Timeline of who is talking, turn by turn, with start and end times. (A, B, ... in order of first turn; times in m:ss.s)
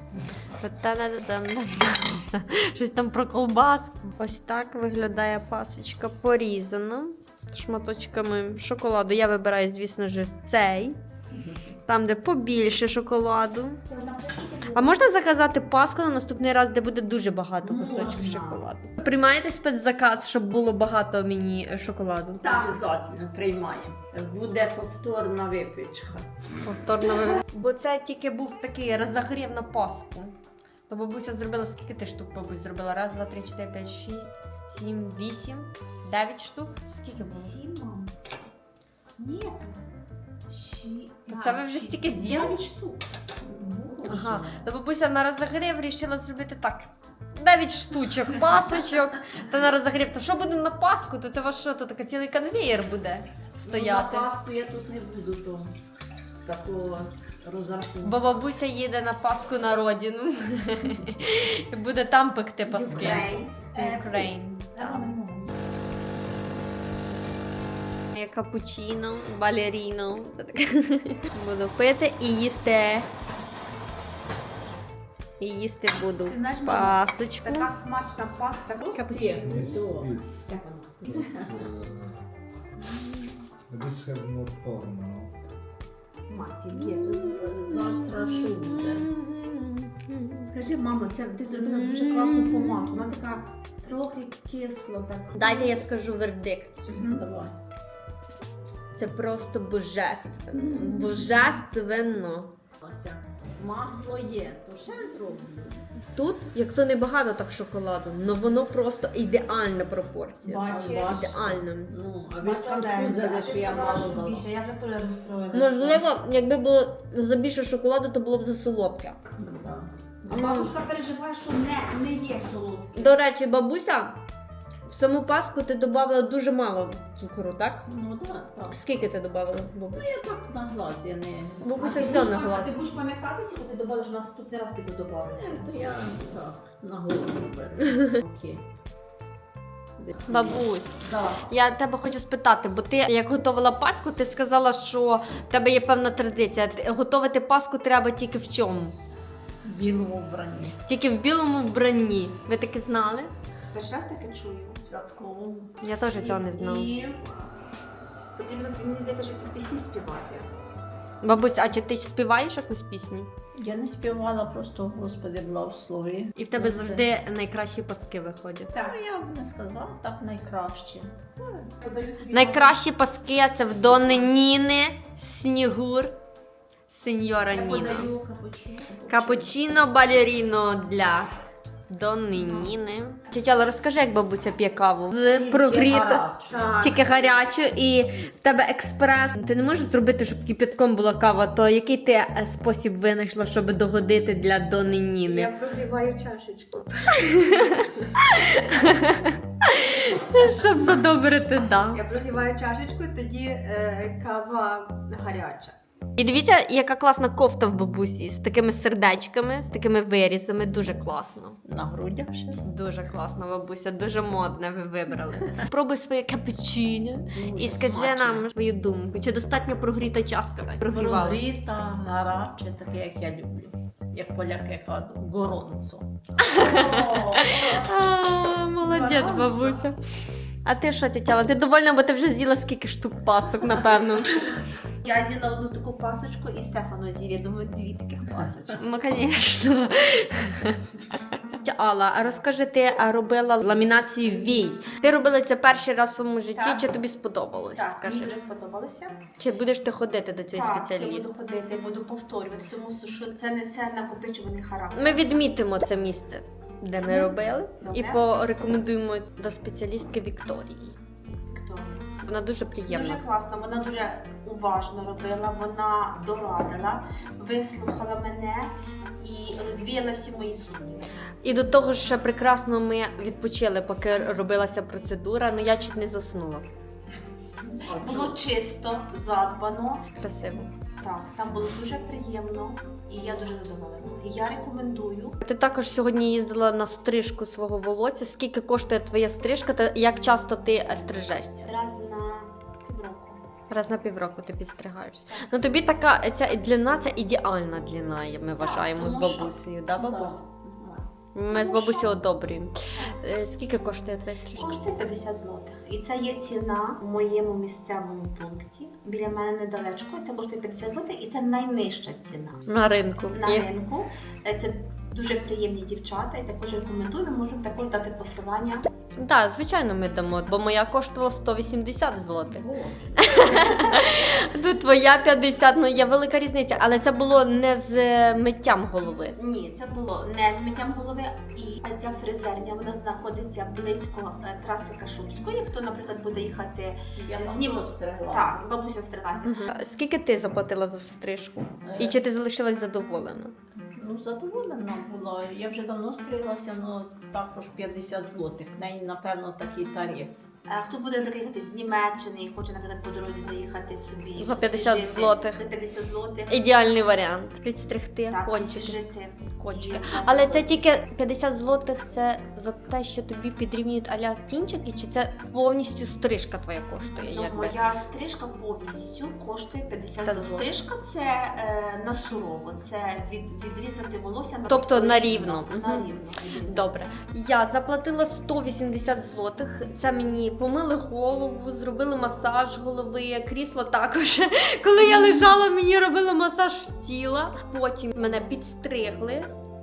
0:00.6-0:11.0 A
0:11.9-0:13.8 A
0:13.9-0:15.0 B
0:14.7-0:22.6 A
0:17.6-0:18.6 B
0:22.4-0:26.3 C
0:26.6-0:30.4 A
0:30.9-0:37.6 A
0:37.2-0:38.2 B
0:39.2-0:39.8 B
0:40.5-0:43.1 B
0:41.3-0:42.6 A
0:43.5-0:44.6 C
0:43.7-0:44.0 B
0:44.1-0:54.3 A
0:53.7-0:55.8 C
0:56.4-0:58.2 C
0:58.0-1:05.0 A
1:02.7-1:04.1 B
1:02.9-1:05.5 C
1:08.1-1:13.1 A
1:15.4-1:17.7 A
1:16.3-1:21.5 B
1:18.9-1:19.8 A
1:19.1-1:20.2 C
1:19.4-1:22.2 D
1:23.7-1:25.4 D
1:26.3-1:27.4 B
1:26.8-1:30.5 A
1:27.0-1:29.1 C
1:30.4-1:35.8 B
1:31.5-1:32.8 A
1:35.4-1:37.0 A
1:36.9-1:37.2 B
1:36.9-1:37.6 C
1:39.0-1:42.5 A
1:40.6-1:41.2 B
1:42.8-1:45.9 C
1:46.2-1:51.9 A
1:50.4-1:54.5 C
1:50.6-1:51.3 B
1:52.4-1:56.0 B
1:55.5-1:59.2 A
1:59.4-2:00.5 C
2:00.3-2:03.2 B
2:00.3-2:00.7 A
2:03.0-2:04.2 A
2:04.9-2:07.9 A
2:07.9-2:08.8 C
2:08.7-2:10.1 A
2:09.9-2:11.8 C
2:11.6-2:12.8 A
2:11.8-2:15.7 B
2:15.4-2:18.6 C
2:20.0-2:21.5 C
2:20.3-2:21.0 A
2:21.5-2:29.0 A
2:29.6-2:30.8 C
2:30.9-2:33.3 A
2:33.7-2:34.8 B
2:34.8-2:35.7 C
2:35.8-2:36.9 A
2:36.1-2:37.5 B
2:38.4-2:40.5 B
2:41.2-2:43.3 A
2:43.6-2:47.1 C
2:46.4-2:48.8 A
2:48.8-2:51.2 C
2:51.4-2:52.8 B
2:52.3-2:56.2 A
2:56.9-2:58.1 A
2:57.5-2:59.7 B
2:59.1-3:01.3 A
3:01.9-3:06.2 A
3:02.4-3:02.7 B
3:05.3-3:06.8 C
3:06.5-3:07.4 B
3:06.8-3:15.5 A
3:15.2-3:18.1 B
3:17.2-3:22.0 A
3:20.3-3:20.8 B
3:21.9-3:25.8 B
3:26.2-3:31.6 A
3:31.6-3:32.6 C
3:32.6-3:41.4 A
3:37.3-3:38.4 C
3:40.9-3:46.1 C
3:46.4-3:50.0 A
3:46.6-3:47.7 B
3:46.6-3:47.5 C
3:49.0-3:49.8 B
3:50.6-3:54.4 A
3:55.0-3:58.8 B
3:58.8-4:00.8 A
4:01.6-4:08.3 A
4:06.6-4:07.0 B
4:07.8-4:09.2 B
4:09.4-4:11.3 A
4:10.5-4:15.4 B
4:15.0-4:21.0 A
4:17.1-4:18.2 B
4:21.5-4:22.1 B
4:22.2-4:23.2 A
4:22.8-4:31.2 B
4:31.4-4:36.7 A
4:37.8-4:40.1 B
4:37.8-4:38.4 C
4:40.2-4:40.7 A
4:41.0-4:45.4 B
4:45.4-4:51.7 A
4:51.6-4:53.4 B
4:53.7-5:00.4 A
4:55.3-4:55.6 B
4:58.6-5:00.3 B
5:00.0-5:01.0 C
5:01.4-5:04.8 A
5:01.5-5:02.2 B
5:04.6-5:12.6 B
5:12.7-5:13.7 A
5:13.3-5:18.9 B
5:19.2-5:22.7 A
5:22.5-5:23.9 C
5:23.2-5:29.4 A
5:29.4-5:39.7 B
5:37.2-5:38.6 C
5:39.4-5:43.6 A
5:41.8-5:42.2 C
5:43.8-5:50.4 C
5:50.7-5:56.6 B
5:54.4-5:55.6 A
5:56.5-5:59.0 A
5:58.3-6:00.8 B
5:59.6-6:07.8 A
6:07.2-6:17.1 B
6:10.2-6:10.7 A
6:14.7-6:16.1 A
6:16.7-6:29.5 A
6:25.0-6:25.6 B